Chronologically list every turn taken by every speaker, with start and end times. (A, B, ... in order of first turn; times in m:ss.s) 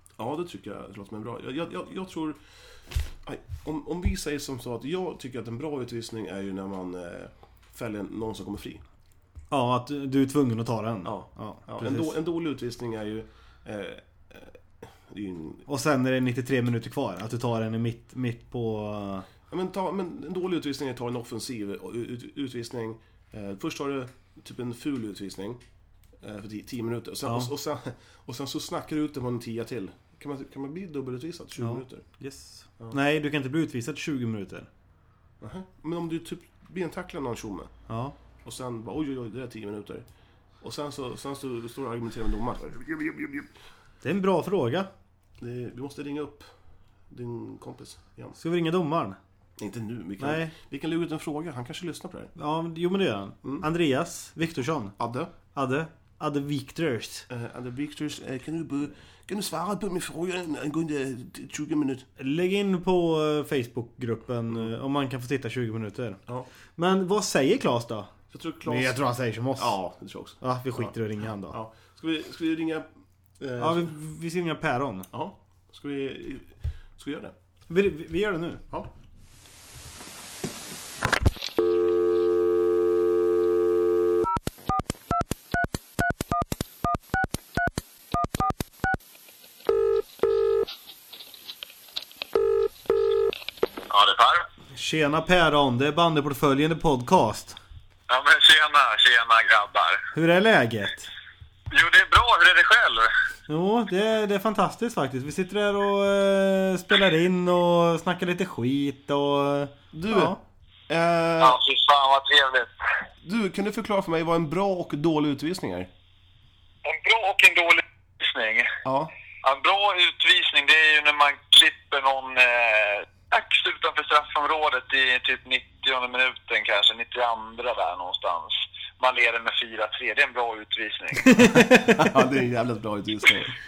0:00.2-0:02.4 A
0:03.2-0:08.8 A
0:09.5-0:12.2 B
0:11.0-0:15.6 A
0:15.7-0:19.3 B
0:19.5-0:25.6 A
0:26.2-0:32.1 A
0:31.6-0:34.7 B
0:35.4-0:37.7 A
0:37.9-0:38.2 B
0:38.4-0:40.0 A
0:40.6-0:43.5 A
0:44.0-0:44.9 B
0:45.4-0:46.5 A
0:47.1-0:48.4 A
0:48.4-0:49.2 B
0:49.6-0:52.3 A
0:50.2-0:50.5 B
0:52.4-0:54.9 B
0:55.0-0:55.3 A
0:55.5-0:57.3 B
0:57.3-1:02.1 A
1:02.2-1:06.2 B
1:06.8-1:08.1 B
1:08.3-1:09.0 A
1:08.6-1:09.8 B
1:09.6-1:10.9 A
1:10.4-1:11.6 B
1:11.5-1:12.9 A
1:13.4-1:13.9 A
1:13.6-1:15.1 B
1:15.1-1:17.3 A
1:17.7-1:18.6 B
1:33.9-1:34.5 C
1:34.8-1:37.6 B
1:38.1-1:40.1 C
1:40.1-1:41.1 B
1:41.7-1:43.1 C
1:43.5-1:50.4 B
1:49.9-1:50.4 A
1:50.9-1:51.6 A
1:51.4-1:52.7 C
1:53.2-1:55.9 A
1:56.8-1:58.7 C
1:58.8-1:59.1 A
1:59.4-2:11.4 C
2:11.3-2:12.0 B
2:11.7-2:13.6 A